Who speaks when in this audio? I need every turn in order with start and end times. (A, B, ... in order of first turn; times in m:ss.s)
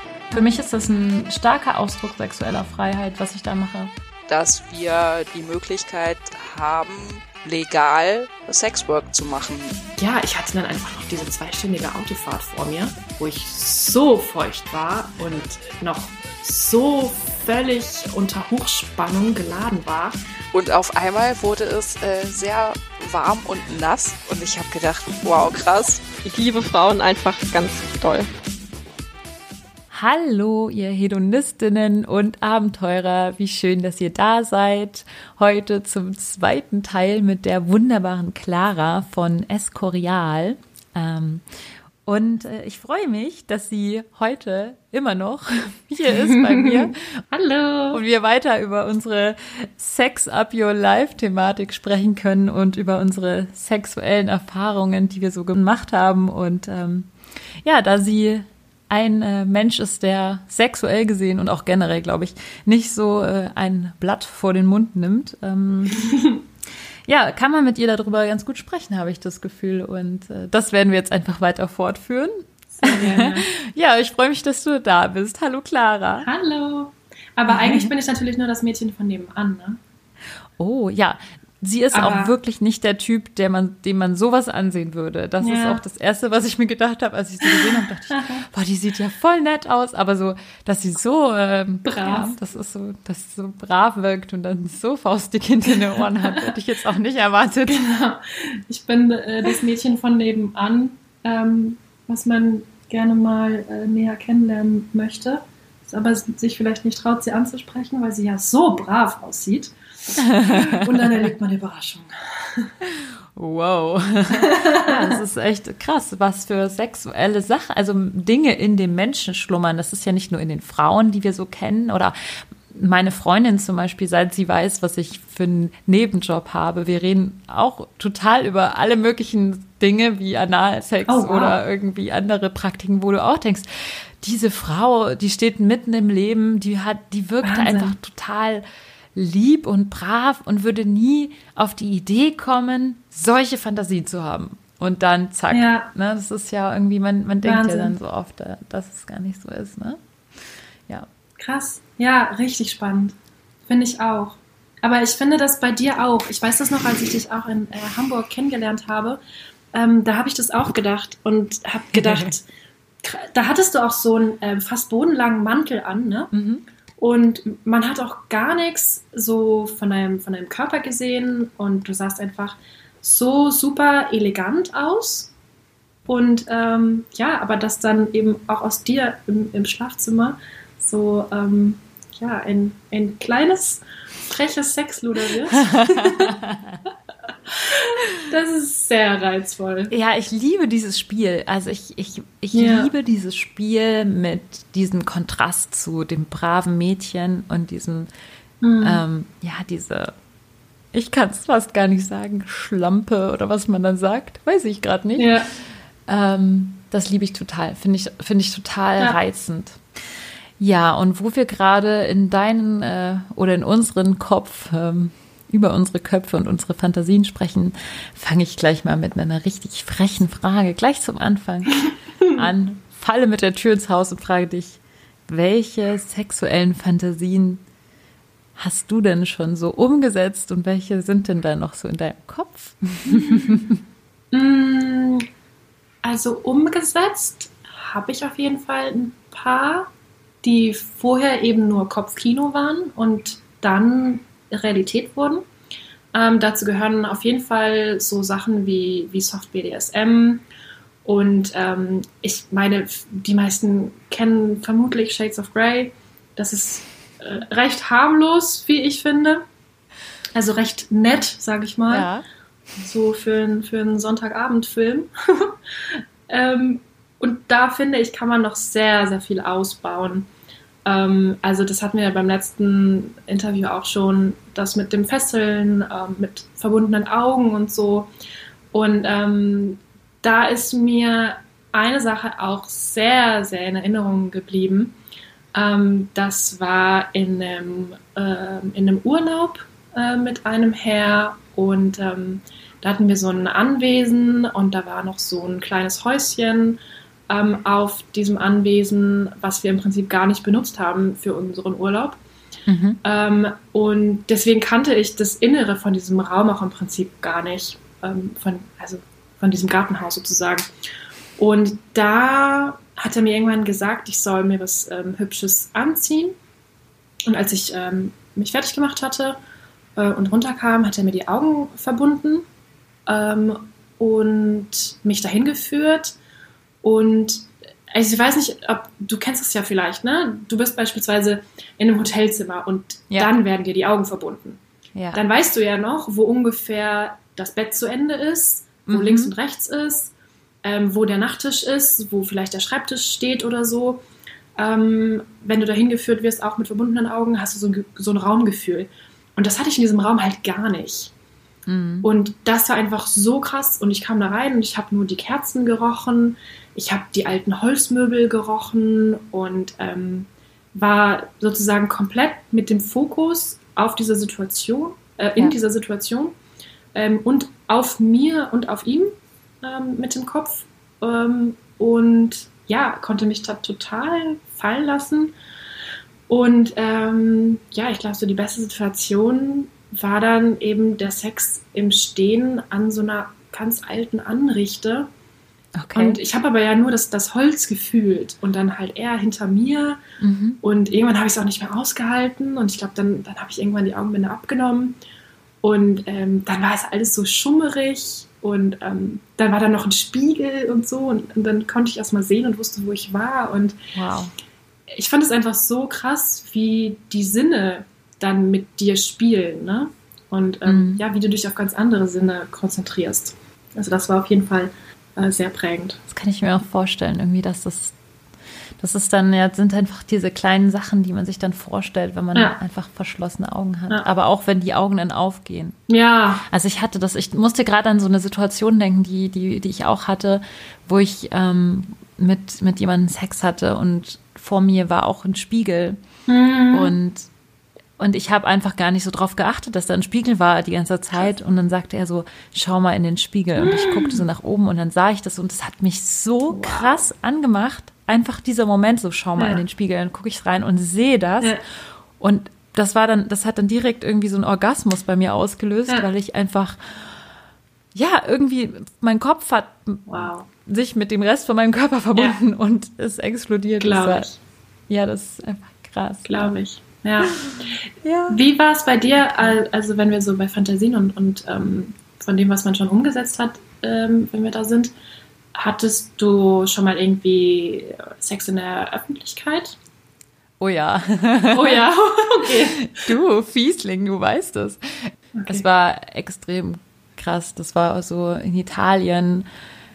0:00.3-0:03.9 A
0:04.3-0:09.8 B
0:10.0-0:20.2 C
0:20.5-0:26.0 B
0:26.2-0:28.3 D
0:29.9-0:41.4 A
0:42.0-0:47.2 A
0:46.1-0:48.0 C
0:47.9-0:57.1 A
0:57.6-1:06.3 A
1:06.1-1:06.4 C
1:07.1-1:16.3 A
1:12.7-1:13.5 C
1:16.2-1:19.8 C
1:17.5-1:17.9 A
1:20.6-1:37.8 A
1:21.9-1:22.3 C
1:25.4-1:25.8 C
1:27.4-1:28.4 C
1:31.8-1:32.3 C
1:37.7-1:52.7 C
1:50.2-1:51.2 A
1:52.8-2:02.2 A
1:54.3-1:55.2 C
2:02.7-2:30.0 A
2:11.1-2:11.6 C
2:17.4-2:18.0 C
2:25.5-2:25.9 C
2:27.4-2:28.0 C
2:31.4-2:33.2 C
2:33.7-2:39.2 C
2:39.7-2:42.4 C
2:42.0-2:42.2 A
2:43.0-2:46.3 C
2:46.3-2:46.6 A
2:47.0-2:55.3 C
2:56.1-3:06.4 C
3:05.7-3:06.8 A
3:07.5-3:09.9 C
3:09.9-3:18.1 A
3:12.5-3:12.9 C
3:18.6-3:19.0 C
3:18.8-3:20.1 A
3:20.9-3:25.4 A
3:25.2-3:25.5 C
3:26.1-3:29.8 A
3:30.6-3:41.8 A
3:42.2-3:42.5 C
3:42.3-3:47.6 A
3:48.6-3:53.8 A
3:53.1-3:53.7 C
3:54.3-3:55.2 C
3:56.0-3:59.9 C
4:00.4-4:05.5 C
4:06.1-4:10.4 C
4:11.0-4:19.4 C
4:20.4-4:22.1 C
4:21.9-4:22.2 A
4:22.8-4:30.3 C
4:30.9-4:38.1 C
4:38.7-4:45.0 C
4:45.5-4:56.8 C
4:57.3-5:02.2 C
5:02.7-5:03.0 A
5:03.0-5:10.7 C
5:11.4-5:16.4 C
5:17.3-5:19.4 C
5:20.0-5:22.4 C
5:23.1-5:26.2 C
5:26.8-5:34.6 C
5:35.0-5:35.2 A
5:35.1-5:40.1 C
5:38.9-5:39.3 A
5:40.6-5:44.0 C
5:44.6-5:51.1 C
5:51.7-5:52.1 A
5:52.0-6:06.4 C
6:06.9-6:15.3 C
6:16.3-6:25.1 C
6:25.8-6:26.2 A
6:26.0-6:30.0 C
6:30.2-6:30.6 A
6:30.6-6:35.0 C
6:35.6-6:43.8 C
6:43.9-6:44.3 A
6:44.9-6:56.0 C
6:50.7-6:51.0 A
6:56.1-6:58.0 A
6:58.8-7:05.8 A
7:05.9-7:06.4 C
7:06.5-7:16.0 A
7:16.3-7:17.0 C
7:16.7-7:17.3 A
7:18.0-7:31.6 A
7:23.6-7:24.2 C
7:26.5-7:27.0 C
7:29.4-7:29.6 C
7:32.2-7:37.2 A
7:38.0-7:44.3 A
7:40.1-7:40.5 C
7:43.8-7:44.4 C
7:44.9-7:46.5 A
7:46.2-7:47.4 C
7:47.2-7:48.4 A
7:48.3-7:54.9 C
7:49.2-7:49.6 A
7:55.6-7:59.8 C
8:00.6-8:01.9 A
8:01.5-8:03.0 C
8:02.4-8:09.5 A
8:05.3-8:05.6 C